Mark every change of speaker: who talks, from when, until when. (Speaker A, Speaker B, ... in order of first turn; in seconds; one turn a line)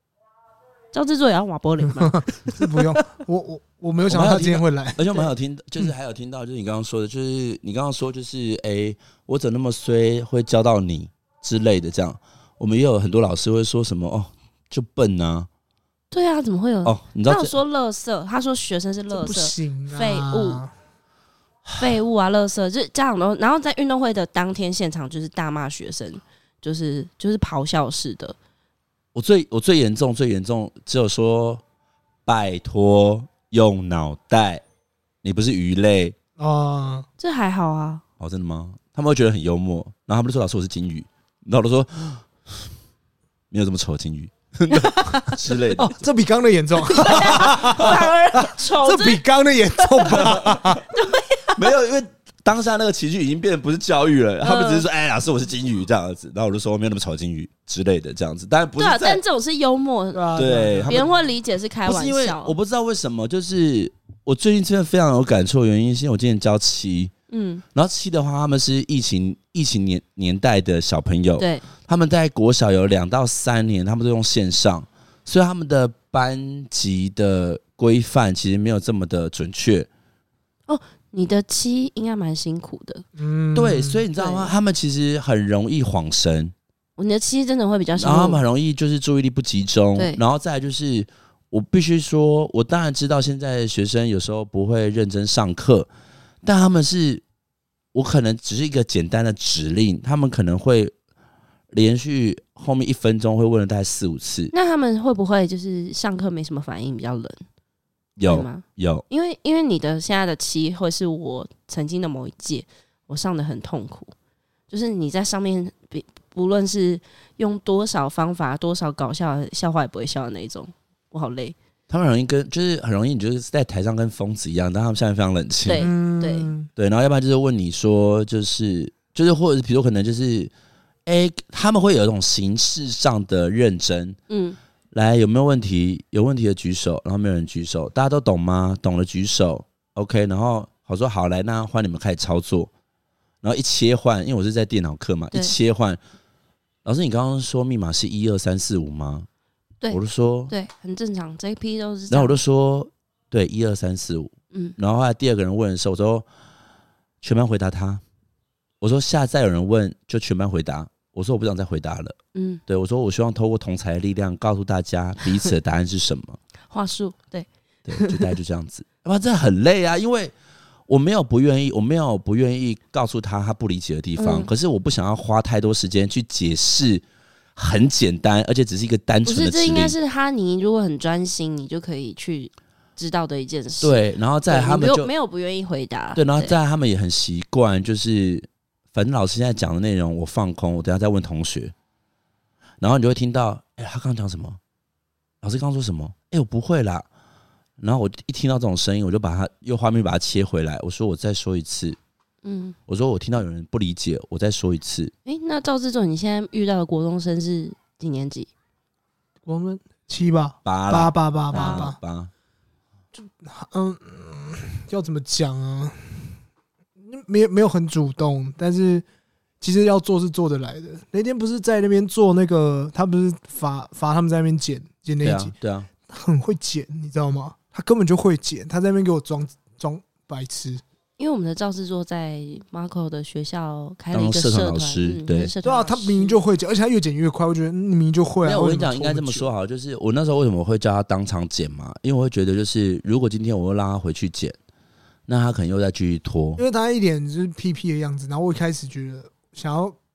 Speaker A: 0.9-2.7
Speaker B: 2.0-5.1
Speaker C: 4.1-15.5
Speaker A: 16.1-20.6
Speaker C: 16.8-17.5
Speaker B: 19.1-20.7
Speaker A: 21.8-28.4
Speaker C: 29.1-31.6
Speaker C: 32.2-34.6
Speaker C: 35.2-36.1
Speaker B: 36.4-37.1
Speaker A: 37.2-38.0
Speaker C: 38.2-42.5
Speaker C: 43.5-45.9
Speaker A: 44.7-45.3
Speaker B: 45.7-50.8
Speaker A: 46.9-49.2
Speaker A: 49.8-51.7
Speaker C: 50.1-50.6
Speaker C: 51.5-59.2
Speaker A: 54.4-54.9
Speaker A: 58.8-60.4
Speaker B: 60.1-61.1
Speaker C: 60.3-61.0
Speaker A: 60.9-62.5
Speaker C: 61.9-67.1
Speaker A: 67.3-67.6
Speaker C: 67.7-79.9
Speaker A: 71.4-71.7
Speaker A: 80.7-83.0
Speaker B: 83.2-84.0
Speaker C: 83.5-86.5
Speaker A: 84.1-84.5
Speaker A: 87.0-88.4
Speaker C: 88.0-95.9
Speaker A: 90.0-90.2
Speaker C: 96.4-97.2
Speaker C: 97.9-100.9
Speaker C: 101.7-104.5
Speaker A: 104.5-107.4
Speaker C: 108.2-109.0
Speaker A: 108.2-114.1
Speaker A: 114.7-121.5
Speaker C: 121.9-125.9
Speaker A: 125.7-126.5
Speaker B: 125.8-126.7
Speaker C: 126.8-130.5
Speaker C: 131.1-134.2
Speaker A: 134.3-134.6
Speaker C: 134.9-142.7
Speaker C: 143.4-146.0
Speaker C: 146.8-149.3
Speaker A: 149.8-152.4
Speaker C: 149.9-150.5
Speaker C: 152.1-156.2
Speaker C: 157.2-158.0
Speaker C: 158.8-166.4
Speaker A: 162.3-162.6
Speaker A: 166.7-168.3
Speaker C: 167.8-170.3
Speaker C: 170.9-177.0
Speaker A: 174.2-174.5
Speaker C: 177.6-179.9
Speaker A: 179.2-186.6
Speaker C: 183.8-185.1
Speaker C: 186.1-191.7
Speaker C: 192.8-194.6
Speaker C: 195.4-197.0
Speaker C: 197.8-202.0
Speaker A: 202.4-202.8
Speaker C: 202.9-205.1
Speaker A: 205.2-208.5
Speaker B: 209.4-212.0
Speaker C: 210.6-212.3
Speaker A: 211.5-211.9
Speaker B: 213.1-216.3
Speaker B: 217.0-219.0
Speaker B: 219.6-225.5
Speaker C: 225.2-225.9
Speaker B: 226.1-230.8
Speaker A: 231.2-236.4
Speaker C: 234.1-235.5
Speaker B: 235.6-239.5
Speaker C: 238.4-244.6
Speaker C: 245.3-246.6
Speaker B: 246.6-249.9